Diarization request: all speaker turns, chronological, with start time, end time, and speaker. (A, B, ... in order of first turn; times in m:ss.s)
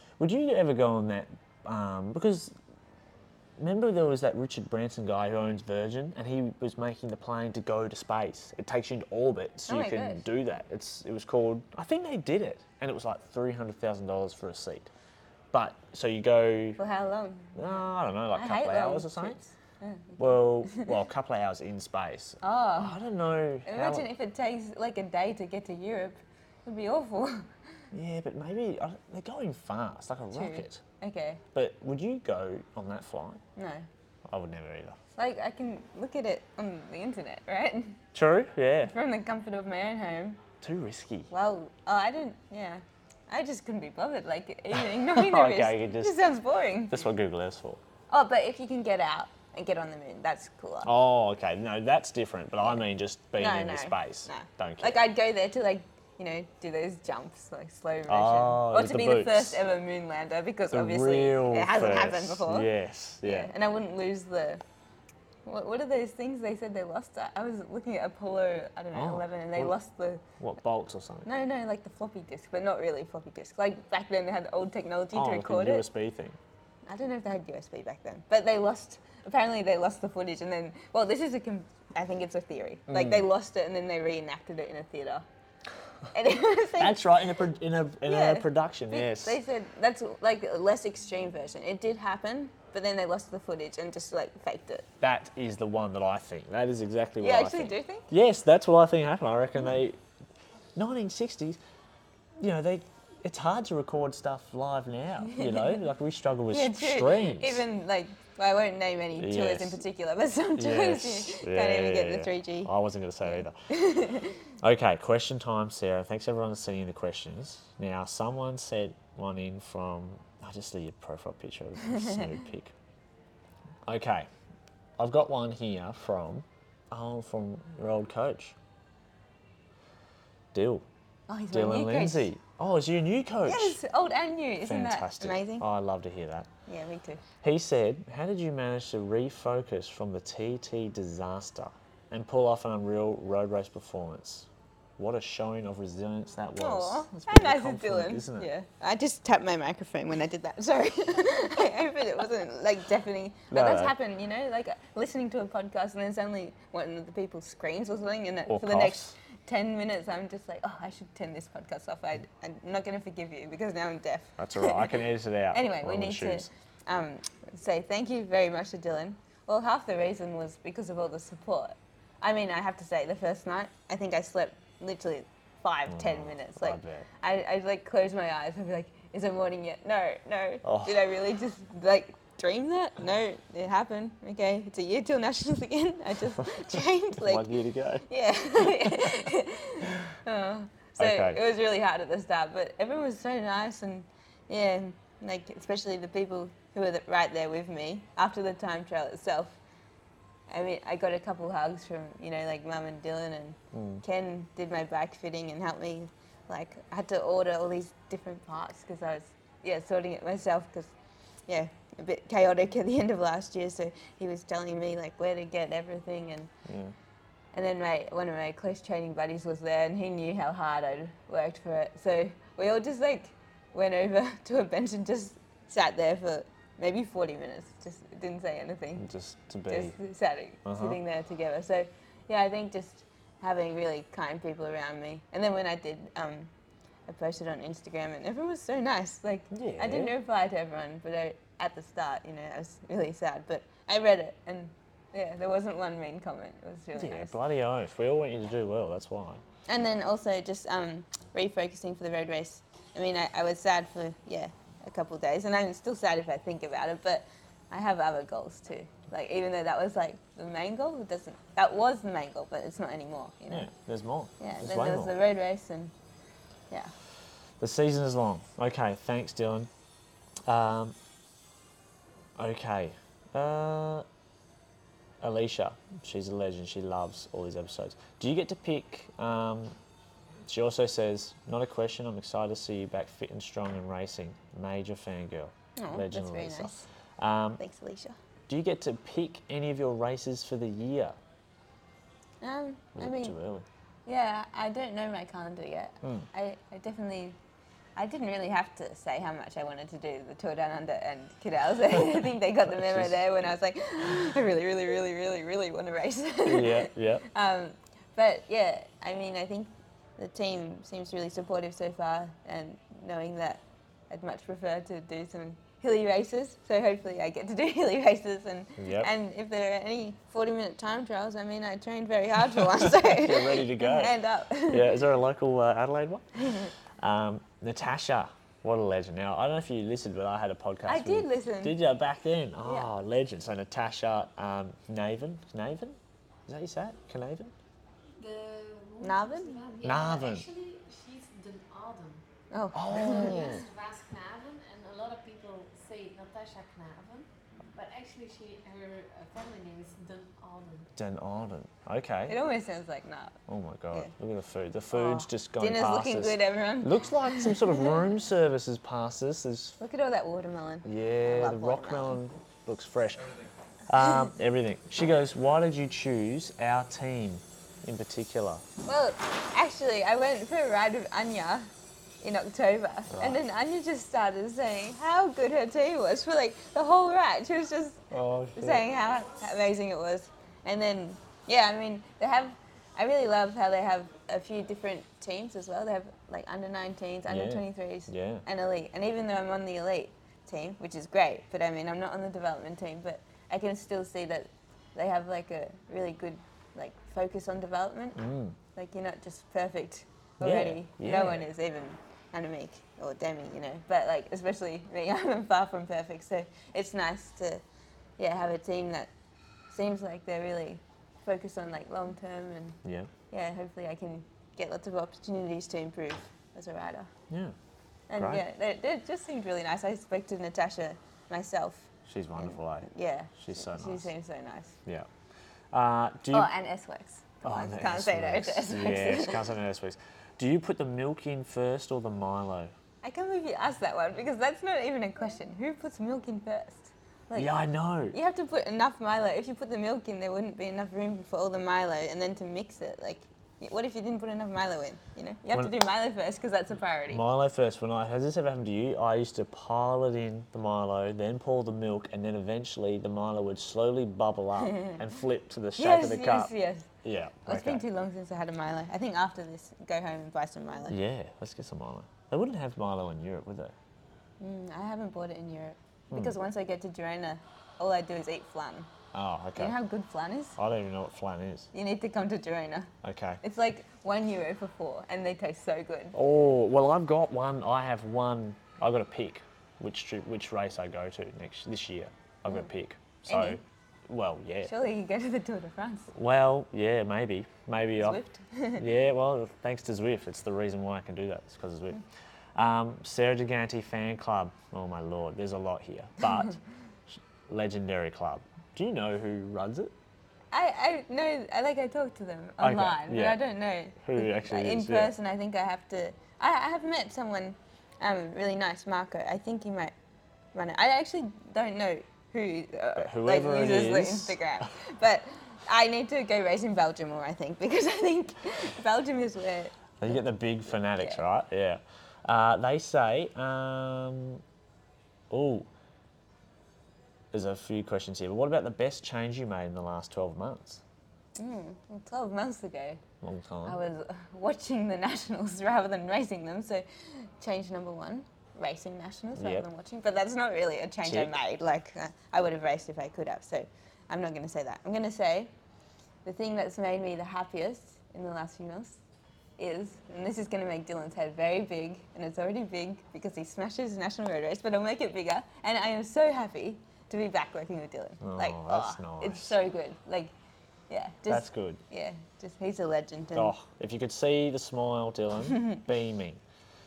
0:00.2-0:02.5 A
0:03.6-0:14.9 A
0:09.7-0:10.2 B
0:15.5-0:16.8 A
0:16.8-0:17.7 B
0:17.5-0:19.4 A
0:18.3-0:21.0 B
0:20.2-0:24.1 A
0:22.4-0:23.0 B
0:23.6-0:27.5 B
0:27.9-0:30.8 A
0:30.3-0:31.4 B
0:31.5-0:33.4 A
0:33.6-0:33.8 B
0:34.3-0:35.0 A
0:35.2-0:38.0 B
0:38.1-0:38.9 A
0:38.8-0:40.4 B
0:40.6-0:41.3 A
0:41.3-0:47.0 B
0:44.7-0:46.2 A
0:46.9-0:47.8 A
0:48.1-0:50.9 B
0:50.8-0:55.0 A
0:53.4-1:02.7 B
0:58.1-0:59.6 A
1:00.7-1:03.5 A
1:03.2-1:04.6 B
1:05.4-1:10.2 B
1:08.9-1:09.7 A
1:10.4-1:11.3 A
1:11.2-1:15.9 B
1:15.1-1:16.4 A
1:16.9-1:25.2 B
1:22.9-1:23.2 A
1:26.1-1:27.0 B
1:26.8-1:29.4 A
1:28.0-1:34.8 B
1:35.0-1:40.0 A
1:37.2-1:38.1 B
1:40.8-1:41.6 A
1:42.4-1:47.6 A
1:45.2-1:45.8 B
1:46.5-1:52.7 B
1:49.2-1:49.8 A
1:50.6-1:53.5 A
1:53.2-1:54.5 B
1:54.6-2:02.7 A
2:01.8-2:02.2 B
2:03.8-2:04.3 A
2:05.0-2:08.6 A
2:10.5-2:10.8 A
2:11.3-2:12.3 B
2:11.5-2:13.8 A
2:13.4-2:15.6 B
2:14.6-2:16.5 A
2:16.7-2:17.2 B
2:17.4-2:28.5 A
2:26.6-3:07.5 B
2:33.5-2:33.9 A
2:38.5-2:39.1 A
2:44.4-2:46.5 A
2:55.9-2:57.0 A
3:00.6-3:01.0 A
3:07.2-3:08.1 A
3:08.0-3:19.6 B
3:08.6-3:09.1 A
3:11.0-3:11.4 A
3:20.5-3:30.9 B
3:23.7-3:24.0 A
3:31.5-3:36.5 B
3:36.6-3:36.9 A
3:37.5-3:49.0 B
3:49.0-3:50.0 A
3:49.7-3:56.5 B
3:50.6-3:51.0 A
3:57.1-4:07.4 B
3:59.5-4:00.1 A
4:06.9-4:09.4 A
4:09.7-4:23.7 B
4:23.5-4:25.1 A
4:24.4-4:25.9 B
4:27.6-4:29.7 A
4:30.4-4:31.0 A
4:32.4-4:34.0 A
4:35.2-4:39.8 A
4:40.4-4:47.6 A
4:45.8-4:46.8 B
4:47.6-4:48.2 B
4:48.5-4:51.2 A
4:52.4-4:53.4 B
4:53.0-4:53.6 A
4:54.0-4:57.4 B
4:58.0-5:25.0 B
5:02.7-5:03.2 A
5:06.4-5:07.2 A
5:18.8-5:19.1 A
5:22.8-5:24.1 A
5:24.6-5:37.5 A
5:26.4-5:26.7 B
5:30.8-5:31.8 B
5:32.6-5:32.9 B
5:38.2-5:42.2 C
5:39.0-5:39.6 B
5:39.8-5:40.5 A
5:42.5-5:43.6 B
5:42.7-5:43.6 A
5:42.9-5:50.9 C
5:51.0-5:52.4 A
5:52.3-5:53.4 B
5:53.5-5:59.8 A
5:54.9-5:58.0 B
5:59.8-6:02.2 B
6:00.8-6:03.4 A
6:03.9-6:08.6 A
6:08.8-6:11.7 B
6:12.2-6:38.2 B
6:13.1-6:13.4 A
6:18.1-6:18.8 A
6:27.3-6:28.4 A
6:38.2-6:38.6 A
6:38.7-6:47.6 B
6:40.4-6:41.5 A
6:48.2-6:49.1 B
6:49.7-6:57.1 B
6:52.8-6:53.1 A
6:57.3-6:57.5 A
6:58.1-7:04.8 B
6:58.2-6:58.4 A
7:02.1-7:04.1 A
7:05.7-7:06.5 A
7:06.3-7:09.5 B
7:07.4-7:12.7 A
7:13.0-7:17.5 B
7:17.4-7:18.2 A
7:18.1-7:27.2 B
7:27.1-7:36.5 A
7:34.6-7:35.0 B
7:35.8-7:36.9 B
7:37.0-7:37.8 A
7:37.4-7:41.0 B
7:40.9-7:43.7 A
7:44.4-7:48.9 B
7:46.1-7:46.4 A
7:49.1-7:49.8 A
7:49.6-7:50.6 B
7:50.6-7:51.7 A
7:51.7-7:52.9 B
7:53.0-7:53.4 A
7:53.4-7:56.2 B
7:56.1-8:04.7 A
8:03.3-8:03.6 B
8:04.6-8:06.1 B
8:06.1-8:08.2 A
8:08.0-8:08.8 B
8:08.8-8:12.0 A
8:12.6-8:16.6 A
8:17.1-8:19.9 A
8:20.5-8:29.9 B
8:22.6-8:23.4 A
8:24.0-8:25.1 A
8:30.5-8:40.1 B
8:33.0-8:34.7 A
8:40.0-8:44.4 A
8:41.0-8:41.2 B
8:45.3-8:45.7 A
8:47.3-8:50.8 A
8:51.4-8:53.0 B
8:53.2-8:53.8 A
8:53.6-9:05.5 B
8:59.4-8:59.7 A
9:01.0-9:01.4 A
9:06.2-9:09.0 B
9:09.6-9:20.3 B
9:18.2-9:19.6 A
9:20.9-9:23.6 B
9:21.3-9:21.8 A
9:23.3-9:26.4 A
9:25.5-9:25.8 B